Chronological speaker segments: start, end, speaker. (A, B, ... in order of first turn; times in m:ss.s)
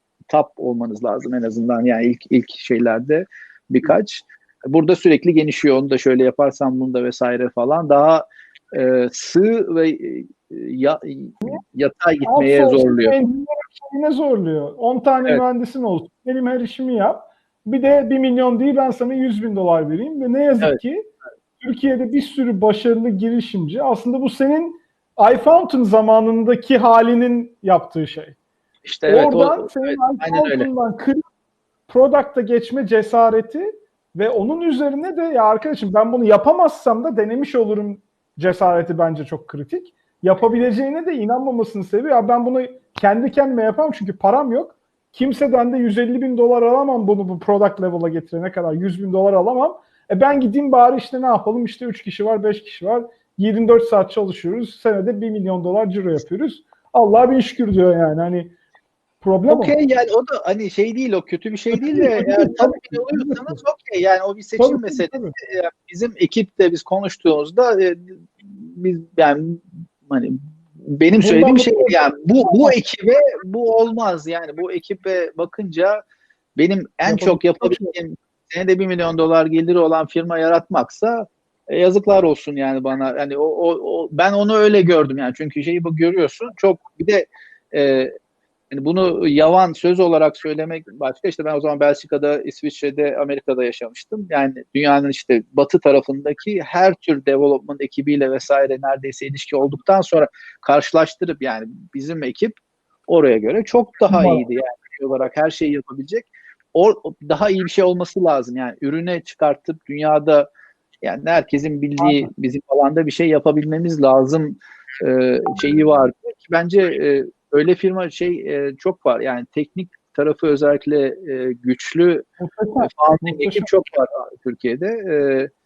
0:00.3-0:13.2 A
0:12.2-0:21.1 B
0:21.6-0:28.4 B
0:28.8-0:30.7 A
0:29.1-0:31.2 B
0:31.9-0:58.5 B
0:59.2-0:59.8 B
0:59.5-1:16.0 A
1:01.7-1:03.6 B
1:04.6-1:05.3 B
1:11.2-1:12.8 B
1:16.6-1:28.1 A
1:17.1-1:17.9 B
1:28.7-1:42.6 A
1:43.1-1:50.5 A
1:44.1-1:44.4 B
1:51.0-2:02.3 A
1:52.0-1:52.3 B
2:02.4-2:03.7 B
2:02.8-2:05.5 A